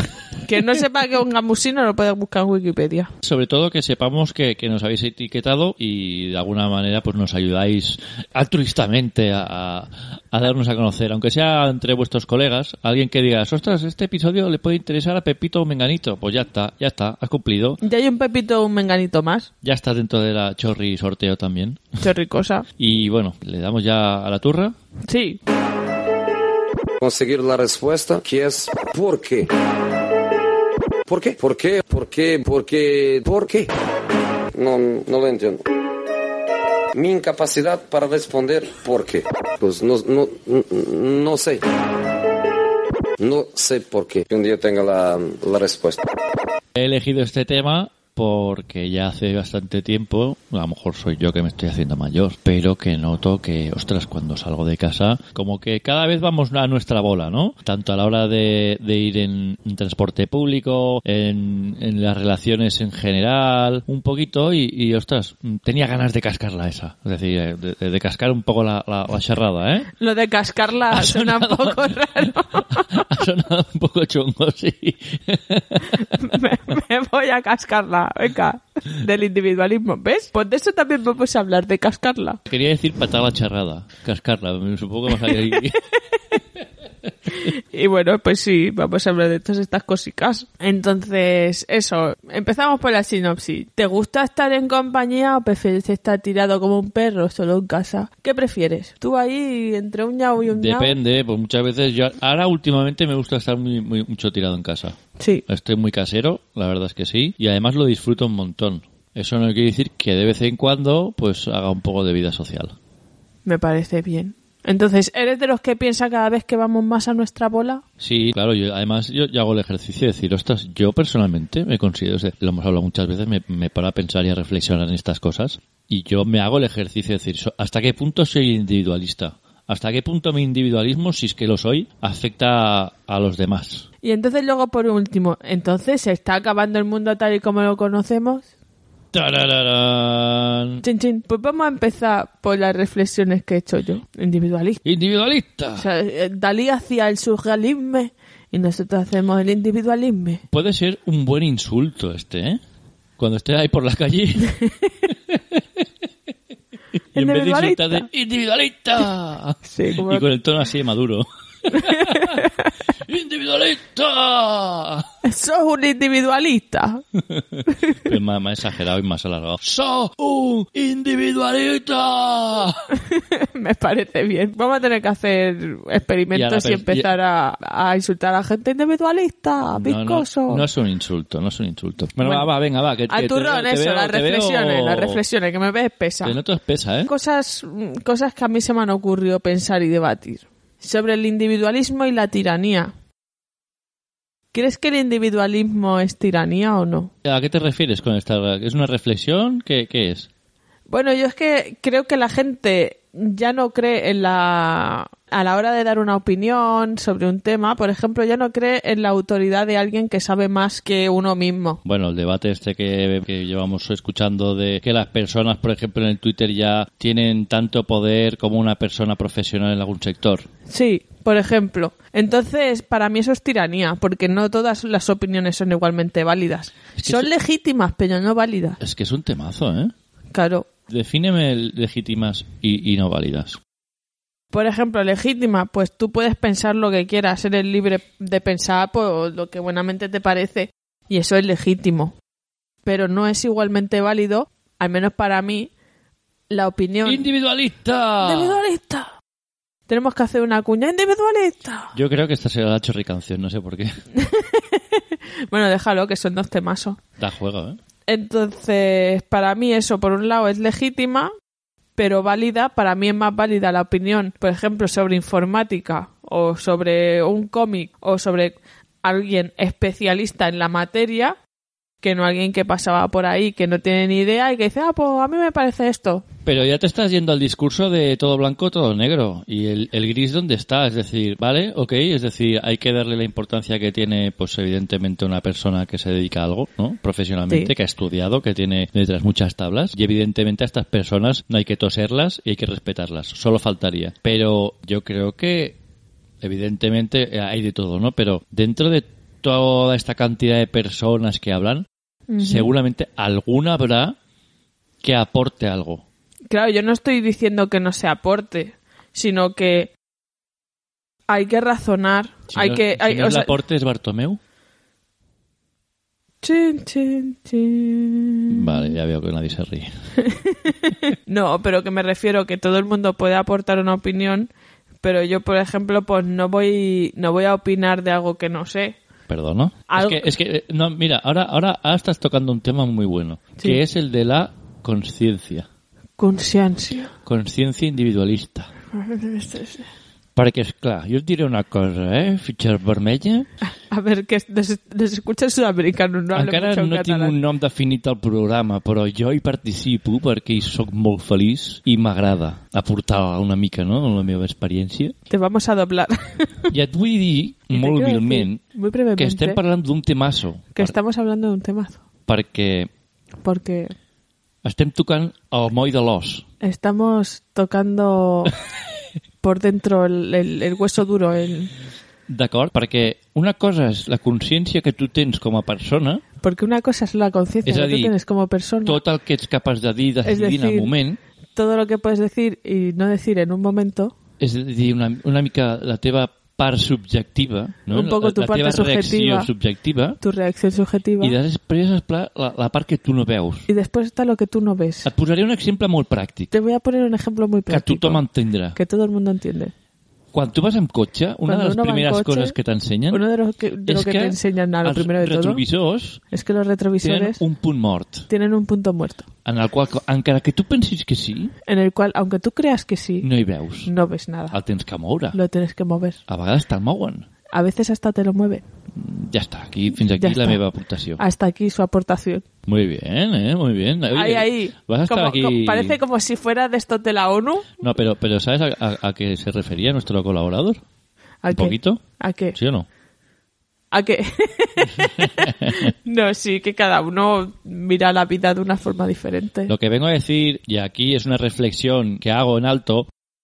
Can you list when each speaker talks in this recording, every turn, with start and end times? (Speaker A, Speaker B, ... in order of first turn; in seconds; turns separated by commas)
Speaker A: 0.4-3.1, Speaker B: 3.2-17.8, Speaker A: 17.8-19.5, Speaker B: 19.6-21.9, Speaker A: 22.0-22.6, Speaker B: 22.8-24.7, Speaker A: 25.0-25.4, Speaker C: 27.0-29.5, Speaker C: 31.1-33.7, Speaker C: 34.5-35.6, Speaker C: 36.9-41.6, Speaker C: 43.2-46.0, Speaker B: 46.7-69.9, Speaker A: 70.0-73.0, Speaker B: 70.9-76.1, Speaker A: 75.9-82.4, Speaker B: 82.5-85.8, Speaker A: 87.4-101.0, Speaker B: 100.5-112.7, Speaker A: 113.5-117.8, Speaker B: 118.0-133.9, Speaker A: 134.0-138.5, Speaker B: 139.1-140.8, Speaker A: 140.8-144.8, Speaker B: 144.8-145.8, Speaker A: 145.8-150.4, Speaker B: 150.5-152.6, Speaker B: 153.2-155.4, Speaker B: 157.1-162.4, Speaker A: 157.1-158.1, Speaker A: 159.7-160.2, Speaker A: 161.7-162.7, Speaker B: 163.1-165.1, Speaker A: 165.2-167.0, Speaker B: 167.3-172.9, Speaker A: 173.0-180.6, Speaker B: 176.3-177.1, Speaker B: 179.7-185.2, Speaker A: 182.2-182.5, Speaker A: 183.1-186.3, Speaker B: 186.2-187.1, Speaker A: 187.1-192.9, Speaker A: 194.5-197.1, Speaker B: 197.2-200.3, Speaker A: 200.9-211.8, Speaker B: 211.8-220.5, Speaker A: 220.7-228.8, Speaker B: 227.0-227.3, Speaker B: 228.8-229.9, Speaker A: 230.3-230.7, Speaker B: 230.9-233.6, Speaker A: 234.5-242.1, Speaker A: 242.8-245.7, Speaker A: 246.5-247.2, Speaker B: 247.0-248.6, Speaker A: 248.2-249.1, Speaker A: 249.9-251.9, Speaker B: 251.9-253.9, Speaker A: 254.2-257.0, Speaker B: 257.2-257.8, Speaker A: 258.1-261.3, Speaker A: 262.0-271.4, Speaker A: 272.0-276.2, Speaker B: 276.4-295.8, Speaker B: 296.4-301.9, Speaker A: 302.3-302.7, Speaker B: 302.4-304.1, Speaker B: 305.0-306.0, Speaker A: 306.5-309.9, Speaker A: 311.3-313.5, Speaker B: 312.5-314.4, Speaker A: 316.4-318.9, Speaker B: 318.5-319.9, Speaker A: 320.2-324.5, Speaker A: 325.0-329.0, Speaker B: 329.3-335.7, Speaker A: 329.9-330.3, Speaker A: 336.2-337.1, Speaker B: 337.2-338.7, Speaker A: 338.9-339.9, Speaker B: 340.4-343.5, Speaker A: 343.7-347.3, Speaker B: 346.3-355.1, Speaker A: 355.3-356.7, Speaker B: 356.7-358.6, Speaker A: 357.7-359.6, Speaker B: 359.1-360.9, Speaker A: 360.7-362.0, Speaker B: 362.3-362.9, Speaker A: 363.4-363.9, Speaker B: 364.6-366.4, Speaker A: 366.6-368.6, Speaker A: 369.4-371.7, Speaker B: 372.3-376.2, Speaker A: 376.4-379.0, Speaker B: 377.6-378.1, Speaker B: 378.8-381.2, Speaker A: 380.2-380.9, Speaker A: 381.5-384.1, Speaker B: 384.4-390.2, Speaker A: 387.9-389.5, Speaker A: 390.2-391.4, Speaker B: 391.2-393.7, Speaker A: 393.7-395.1, Speaker B: 395.0-396.5, Speaker A: 396.5-398.2, Speaker B: 397.7-398.8, Speaker A: 398.7-399.7, Speaker B: 400.3-403.2, Speaker A: 401.4-402.5, Speaker A: 403.1-405.6, Speaker B: 403.9-406.2, Speaker A: 406.3-407.4, Speaker B: 407.0-408.3, Speaker A: 408.3-409.2, Speaker B: 409.4-411.5, Speaker A: 411.7-413.2, Speaker B: 413.2-413.9, Speaker A: 413.8-414.6, Speaker B: 414.5-415.4, Speaker A: 415.3-416.2, Speaker B: 416.3-417.3, Speaker A: 417.5-418.6, Speaker B: 418.9-421.2, Speaker A: 420.2-420.6, Speaker A: 421.2-422.4, Speaker B: 422.6-425.9, Speaker A: 424.1-427.7, Speaker B: 427.8-430.8, Speaker A: 431.4-432.6, Speaker B: 431.5-432.0, Speaker B: 432.5-432.9, Speaker A: 433.9-439.7, Speaker B: 435.0-435.8, Speaker B: 439.7-443.1